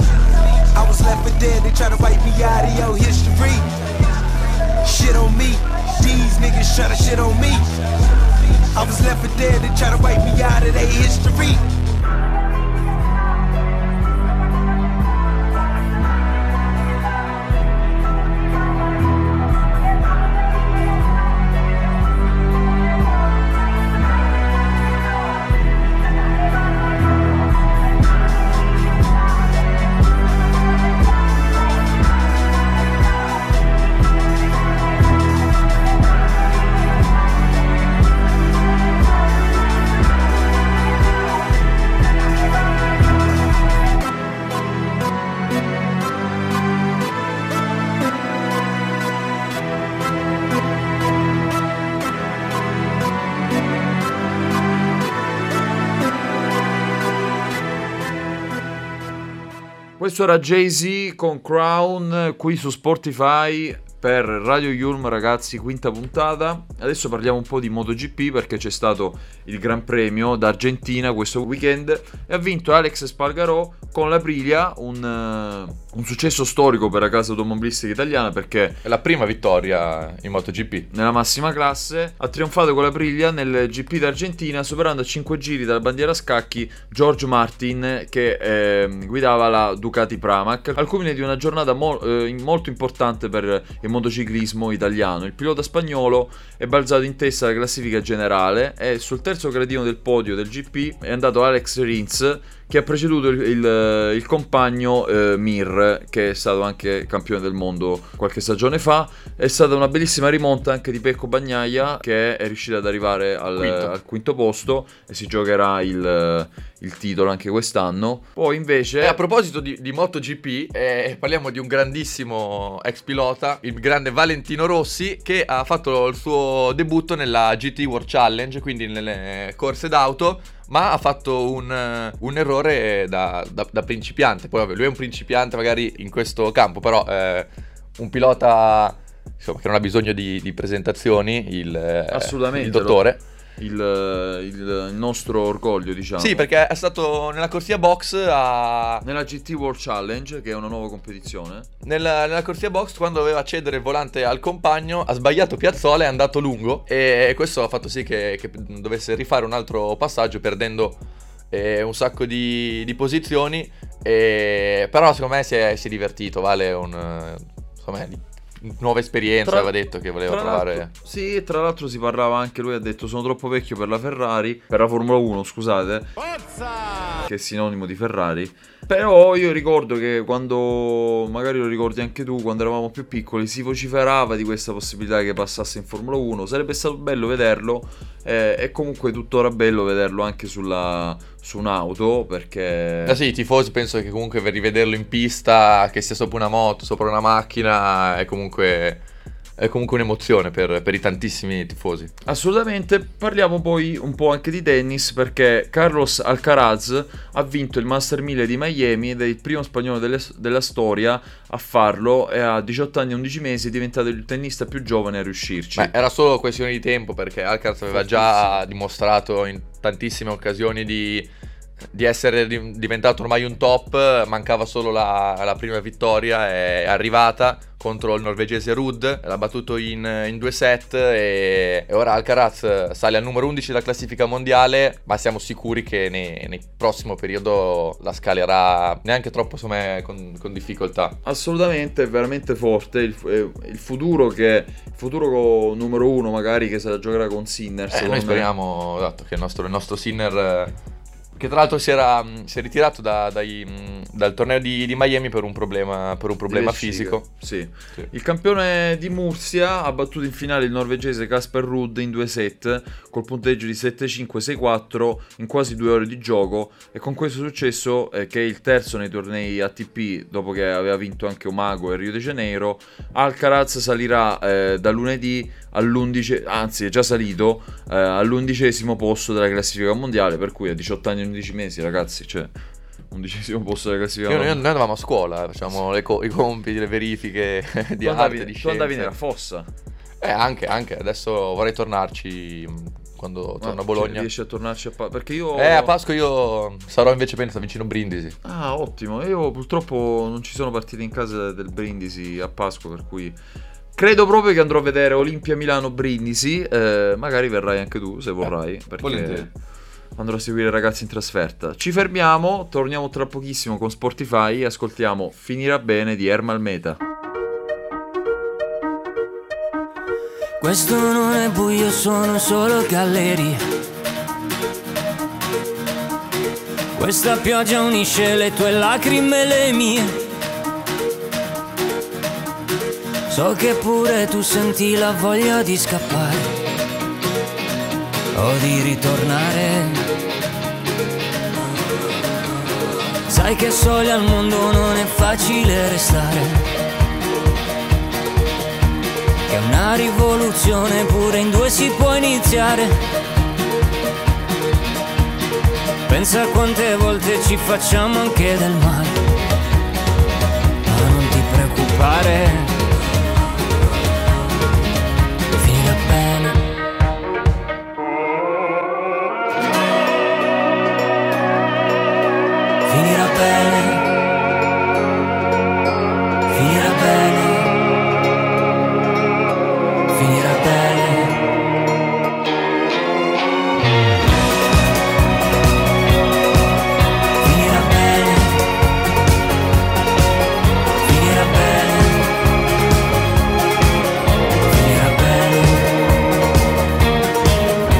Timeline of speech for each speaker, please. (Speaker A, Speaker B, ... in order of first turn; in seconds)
Speaker A: 0.7-3.7, 4.8-7.7, 8.7-11.6
Speaker B: 60.0-78.8, 80.9-119.2, 142.1-146.5, 149.0-151.7, 169.4-169.7, 170.2-176.1, 177.2-193.2, 202.2-215.9, 217.9-218.6, 241.2-248.5, 256.5-282.5, 283.1-284.6, 288.0-289.7, 293.6-295.9, 298.4-303.4, 303.9-309.5, 310.1-317.0
Speaker C: 78.8-80.9, 113.5-113.9, 119.0-143.2, 146.2-149.0, 151.8-161.0, 161.5-170.9, 193.0-199.0, 199.6-202.1, 215.8-221.3, 221.9-241.2, 247.9-250.7, 251.3-257.2, 284.3-289.1, 290.2-294.3, 295.5-298.4, 309.0-309.5
Speaker D: 320.6-323.6, 326.9-330.2, 333.3-336.6, 338.4-340.1, 343.3-346.6, 349.5-353.0, 356.1-359.2, 360.9-362.8, 365.5-366.6, 372.9-374.1, 376.5-377.7, 380.1-381.4, 387.4-388.6, 391.0-392.2, 394.7-395.9